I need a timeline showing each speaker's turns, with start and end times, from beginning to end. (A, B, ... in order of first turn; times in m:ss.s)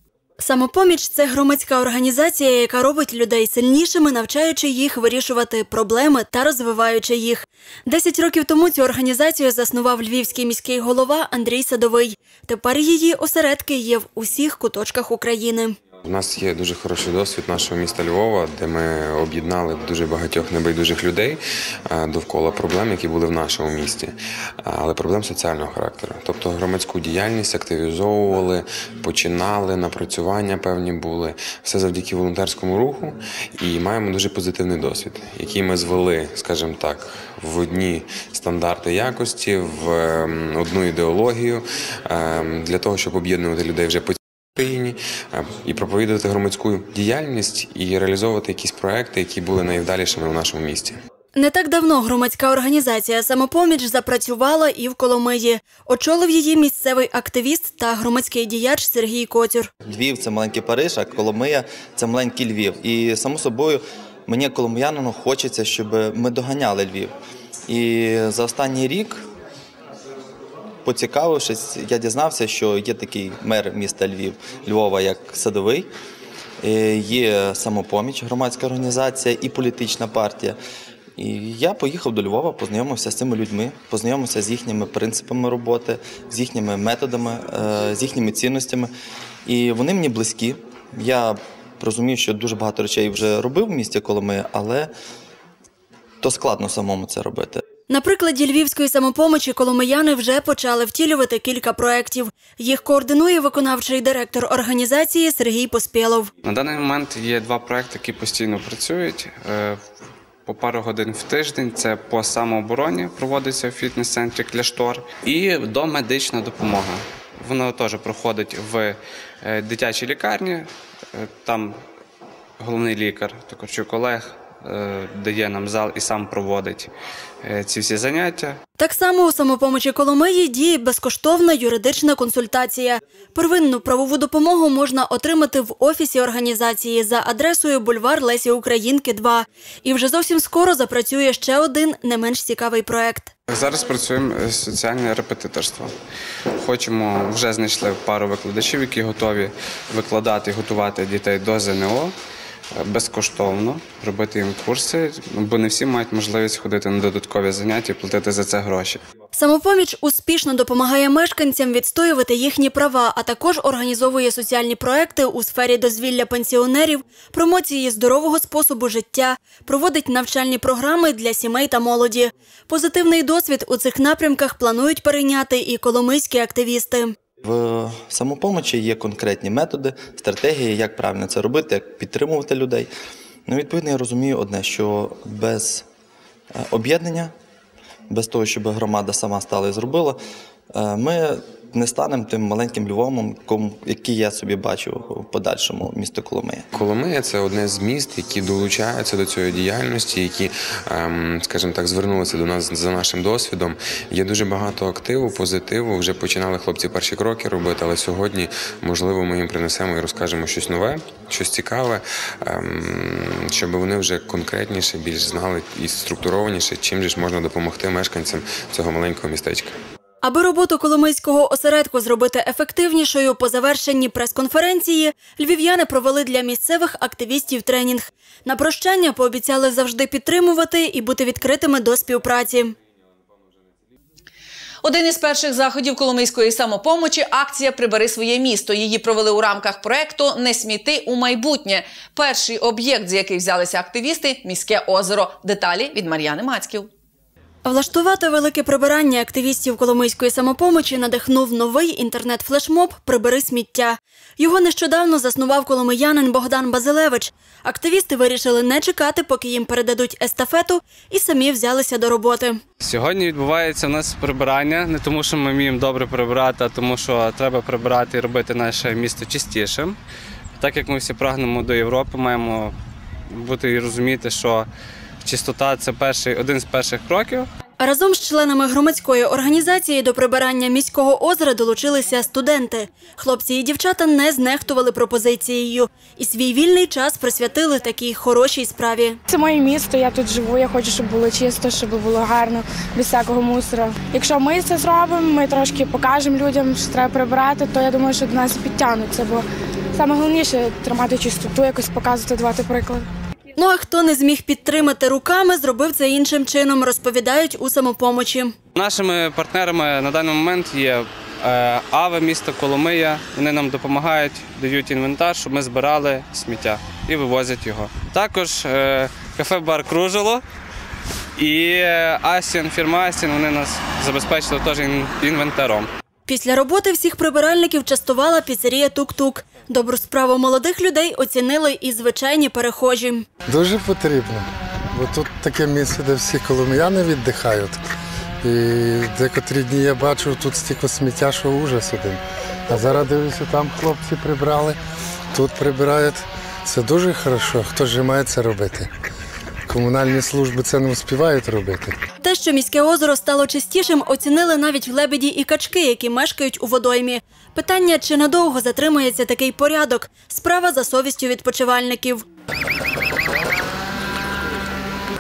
0:00.4-0:15.8 A
0:16.0-0:51.0 B
0:51.3-0:59.7 A
0:59.8-1:07.1 C
1:07.7-1:09.2 C
1:10.8-1:15.9 C
1:16.6-1:20.6 C
1:21.2-1:28.9 C
1:29.5-1:34.9 C
1:36.2-1:37.6 C
1:37.9-1:46.3 A
1:46.4-1:49.8 D
1:50.5-2:01.8 D
2:02.6-2:06.9 D
2:07.4-2:08.6 D
2:08.8-2:23.3 A
2:23.5-2:25.9 D
2:26.6-2:32.2 D
2:32.8-2:39.0 D
2:39.3-2:57.1 A
2:57.4-3:02.9 C
3:03.5-3:05.9 C
3:06.6-3:07.3 C
3:08.1-3:10.2 C
3:10.8-3:16.7 C
3:16.7-3:39.7 B
3:40.2-3:52.7 A
3:54.8-4:06.9 E
4:07.6-4:22.6 A
4:22.8-4:30.0 D
4:30.6-4:32.8 D
4:33.3-4:34.7 D
4:35.2-4:37.5 D
4:37.8-4:49.2 A
4:49.3-5:03.1 F
5:03.6-5:08.6 A
5:08.8-5:20.4 D
5:21.4-5:25.9 D
5:26.3-5:33.3 A
5:33.5-5:37.9 G
5:38.4-5:44.8 G
5:45.3-5:48.9 G
5:49.7-5:52.0 G
5:52.2-6:02.2 A